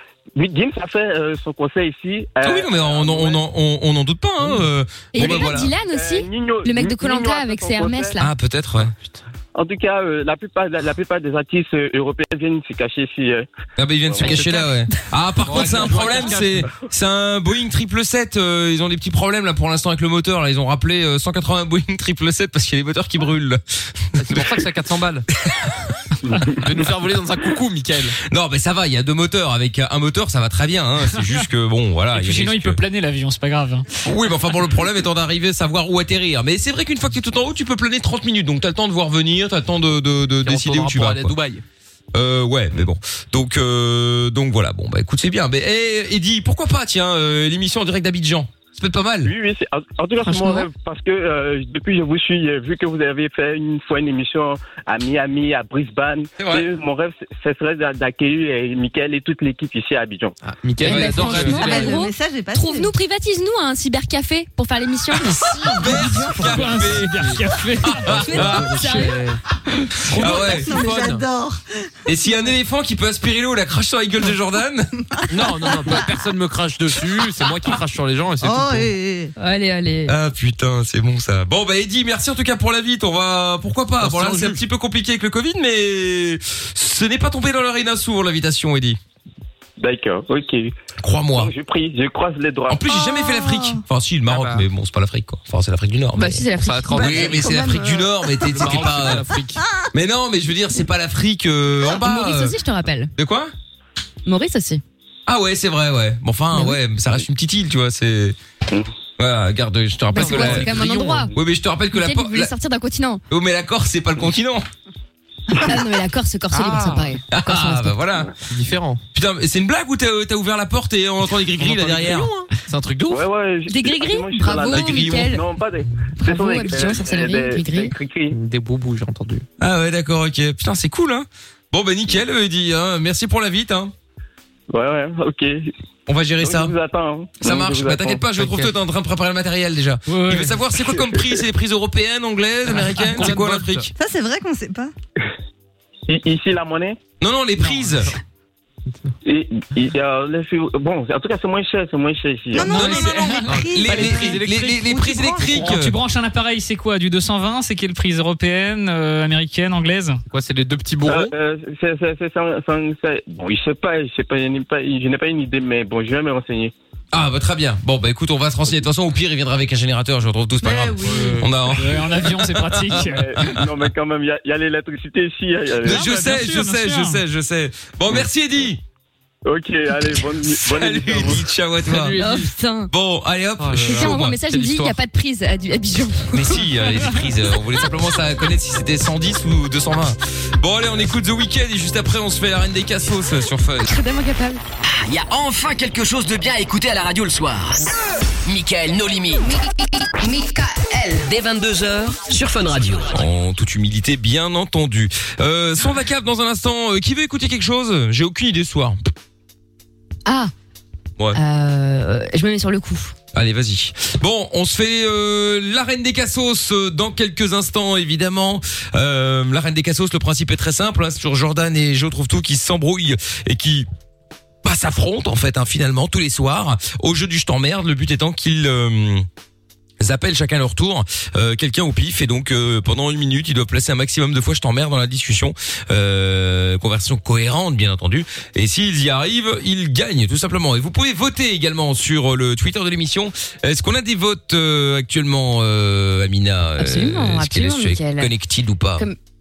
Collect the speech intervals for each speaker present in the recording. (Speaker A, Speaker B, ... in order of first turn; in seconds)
Speaker A: 0.4-3.4, 5.2-8.2, 9.6-13.5, 14.1-14.4, 49.2-60.4, 89.8-90.7, 91.3-92.8, 123.1-128.4, 134.7-135.7, 136.4-138.3, 140.9-141.4, 146.1-147.0, 149.2-152.8, 161.1-166.7, 173.0-176.0, 179.5-181.4
Speaker B: 2.4-5.7, 8.2-8.9, 13.8-24.5, 25.5-25.9, 28.2-32.8, 34.0-41.4, 42.1-49.3, 56.4-56.7, 60.9-61.7, 65.5-68.9, 70.1-70.8, 72.1-75.5, 80.1-89.0, 91.0-91.5, 92.7-99.3, 99.9-102.6, 103.2-103.5, 105.3-108.4, 109.2-110.8, 111.3-112.5, 113.3-114.7, 117.3-118.3, 119.1-122.3, 124.7-125.3, 129.6-133.9, 136.1-136.8, 137.4-143.9, 147.2-148.1, 152.8-155.9, 167.1-173.7, 175.8-178.8, 180.4-182.2, 182.9-184.4, 186.3-193.9, 203.1-209.0, 213.3-223.9, 224.6-229.3, 230.0-249.1
Speaker C: 5.1-8.3, 50.2-50.7, 60.8-66.5, 68.1-69.2, 79.4-80.1, 96.2-97.5, 102.0-103.1, 104.3-104.8, 106.5-106.8, 110.1-111.3, 111.9-113.2, 115.6-118.0, 123.7-125.4, 126.2-127.9, 182.2-182.9, 183.8-186.6, 193.9-194.6, 200.0-201.2, 210.3-210.5, 211.3-213.2, 246.8-248.3
Speaker D: 8.8-9.2, 14.2-14.7, 15.4-16.7, 24.2-25.3, 26.5-28.2, 40.4-41.6, 60.4-62.0, 68.1-69.4, 70.0-71.2, 75.3-78.9, 84.0-84.6, 94.3-94.7, 96.6-97.6, 98.4-99.6, 110.1-111.3, 116.5-117.2, 118.5-119.0, 121.5-123.2, 128.3-129.4, 138.3-138.7, 142.8-143.9, 153.5-155.7, 160.3-161.3, 171.0-171.5, 181.8-182.5, 183.6-185.0
Speaker E: 32.1-33.9, 66.3-68.2, 140.1-140.6, 147.6-148.1, 152.7-153.6, 155.6-160.2, 171.7-173.3, 175.8-177.2
Speaker F: 61.3-62.9, 70.1-71.6, 78.4-79.3, 92.9-93.8, 97.0-98.3, 143.9-144.9, 152.5-155.6, 170.7-171.3
Speaker G: 194.8-197.9, 198.5-199.5, 201.1-203.1